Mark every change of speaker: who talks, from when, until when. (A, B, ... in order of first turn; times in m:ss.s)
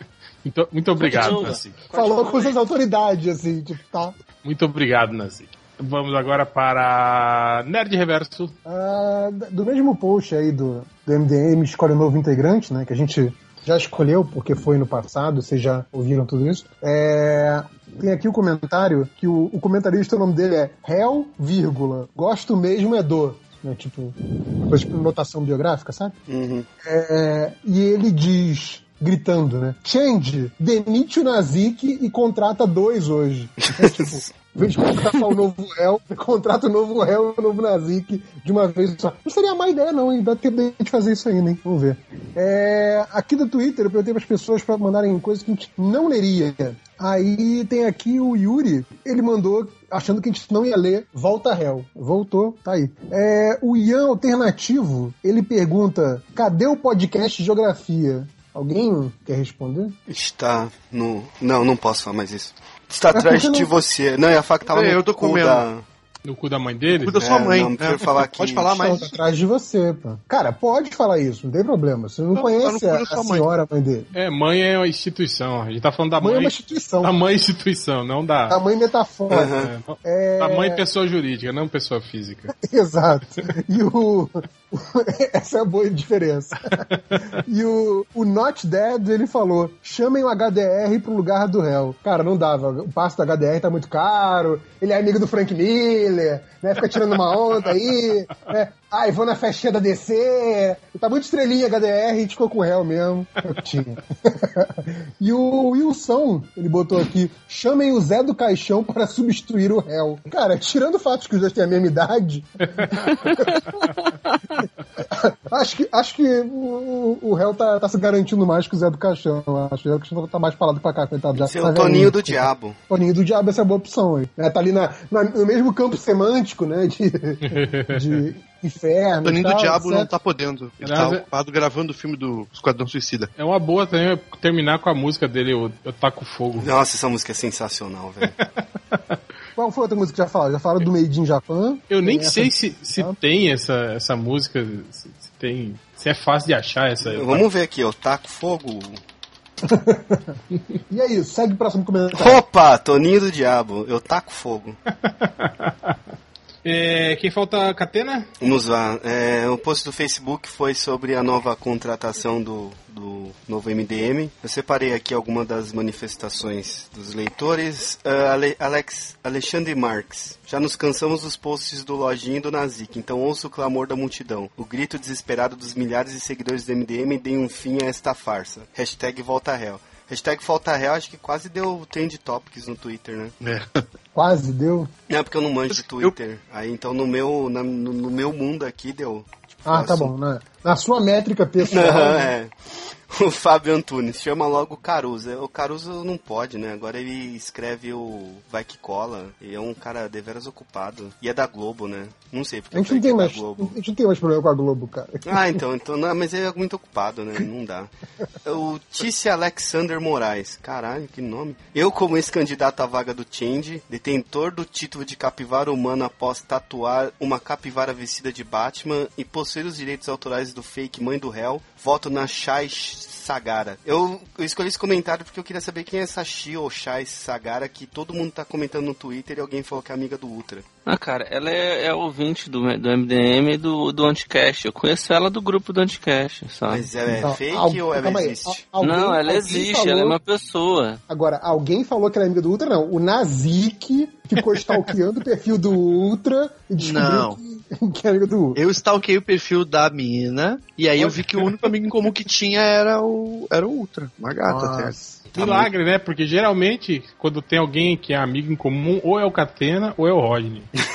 0:00.4-0:01.8 A
0:01.0-0:02.6 B
0:01.9-0:04.2 C
0:04.4-0:08.5 A
0:08.6-0:24.2 C
0:24.7-0:26.1 C
0:26.3-0:26.7 D
0:26.8-1:00.0 C
0:33.7-0:34.2 D
1:00.1-1:05.8 D
1:03.1-1:03.7 C
1:04.7-1:05.7 E
1:06.2-1:07.2 A
1:06.9-1:09.2 E
1:07.2-1:08.9 D
1:08.7-1:14.1 C
1:12.3-1:13.5 E
1:14.1-1:18.6 A
1:16.2-1:17.1 C
1:18.5-1:20.8 C
1:19.3-1:19.7 D
1:19.6-1:22.5 A
1:22.5-1:54.1 C
1:26.6-1:27.4 A
1:36.8-1:38.5 A
1:52.7-1:53.4 A
1:54.6-2:10.1 C
2:01.4-2:02.8 D
2:07.4-2:08.2 A
2:09.2-2:13.3 E
2:10.8-2:11.2 A
2:13.4-2:16.7 A
2:16.6-2:18.3 D
2:18.4-2:19.0 A
2:19.6-2:23.2 C
2:21.9-2:27.5 A
2:27.0-2:29.0 D
2:29.6-2:30.4 C
2:30.9-2:32.4 C
2:32.2-2:34.8 D
2:35.0-2:35.9 A
2:36.6-2:38.3 A
2:38.4-3:03.3 D
3:03.4-3:03.9 E
3:04.2-3:04.9 C
3:05.1-3:10.1 D
3:05.7-3:06.2 E
3:09.7-3:12.3 C
3:11.7-3:12.5 D
3:13.1-3:23.8 D
3:22.7-3:25.4 C
3:25.3-3:27.9 D
3:28.4-3:50.6 D
3:50.9-3:56.9 B
3:56.7-3:58.6 D
3:57.0-4:00.2 C
3:58.8-4:01.0 B
4:01.1-4:08.6 C
4:04.4-4:04.9 A
4:06.8-4:07.4 E
4:08.6-4:15.7 E
4:14.5-4:15.3 C
4:15.3-4:20.7 A